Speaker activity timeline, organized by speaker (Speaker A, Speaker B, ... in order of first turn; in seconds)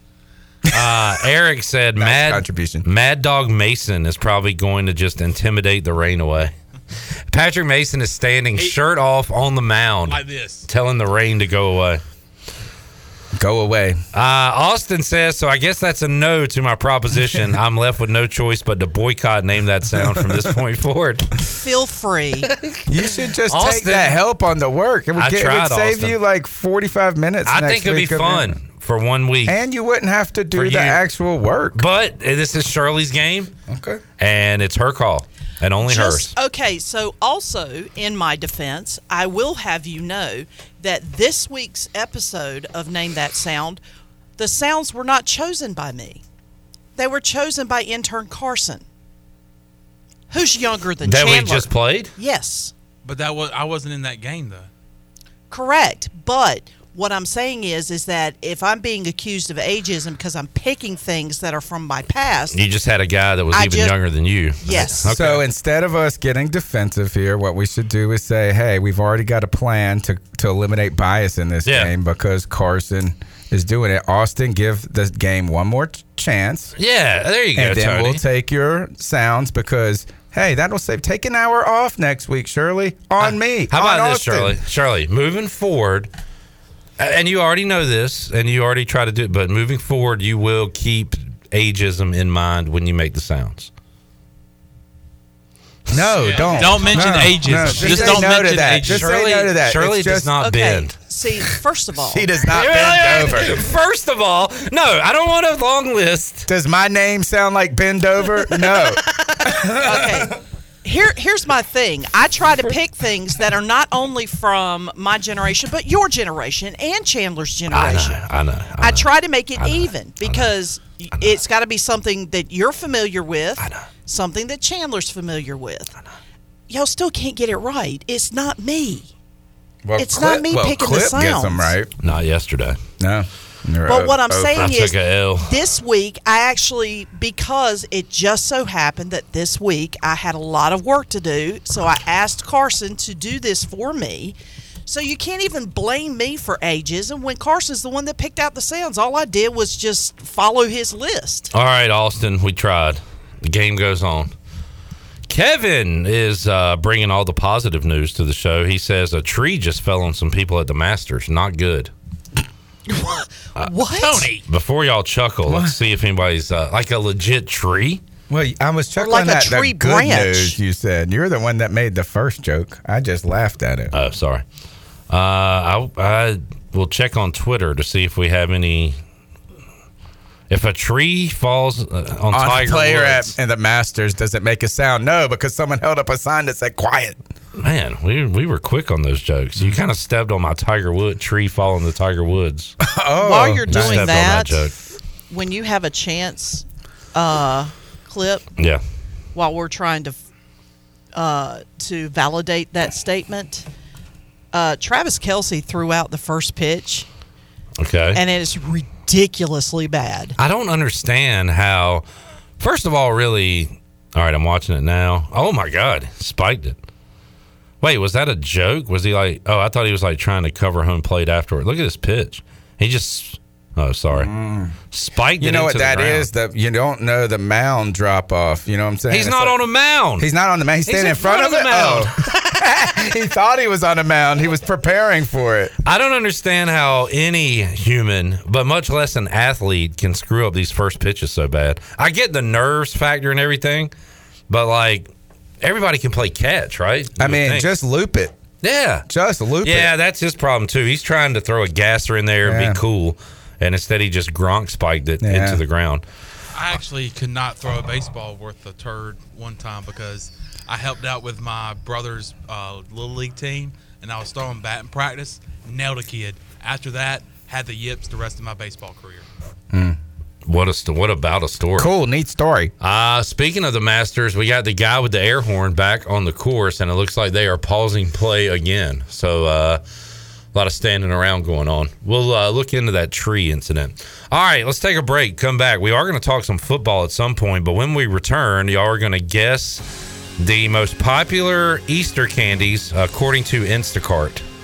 Speaker A: 0.7-6.5, 7.3-12.0, 14.1-21.3, 22.5-24.2, 25.1-26.2, 27.5-29.6, 30.5-31.0, 31.7-33.5, 34.2-36.3, 51.0-52.1, 62.5-65.4, 71.6-71.9, 76.8-78.2, 83.2-86.1, 87.0-93.7, 96.0-101.0, 102.5-106.5, 108.6-109.7, 117.7-120.4, 123.6-123.8, 132.0-132.8, 134.6-135.6, 151.5-154.3, 155.3-161.9, 164.4-168.0, 173.9-174.4, 175.1-179.0, 180.5-183.3, 187.6-192.7, 193.7-194.7, 207.8-208.2, 210.4-212.0, 212.6-216.8, 217.8-224.3, 224.9-226.3, 229.1-230.3, 230.8-233.1, 235.8-243.9, 244.5-247.7, 248.6-249.1, 249.6-256.0, 270.4-271.9, 272.8-279.8, 280.5-289.9, 290.4-294.4
Speaker B: 2.0-2.8, 13.4-14.0, 19.9-20.5, 22.9-28.6, 29.4-31.8, 33.7-34.0, 65.0-76.7, 77.5-84.6, 95.9-100.3, 102.1-103.6, 106.5-110.2, 129.8-131.9, 133.0-134.7, 165.4-165.8, 168.3-173.9, 182.3-187.2, 192.8-194.3, 224.1-224.7, 225.4-229.6, 230.2-235.7, 247.2-248.3, 249.1-249.9, 252.4-252.8, 255.2-255.6, 271.8-272.7
Speaker C: 10.1-10.7, 53.0-54.7, 96.2-99.1, 163.9-164.4, 256.5-269.2
Speaker D: 21.5-22.5, 35.9-43.8, 44.4-46.2, 47.0-48.8, 50.3-52.7, 55.5-62.6, 63.5-63.9, 64.6-65.1, 100.4-102.3, 109.7-118.2, 118.8-125.9, 126.7-129.1, 130.0-131.7, 133.9-151.5, 162.9-164.3, 169.0-170.6, 193.2-194.7, 195.3-198.5, 199.3-200.2, 201.1-203.7, 204.5-207.1, 208.1-210.3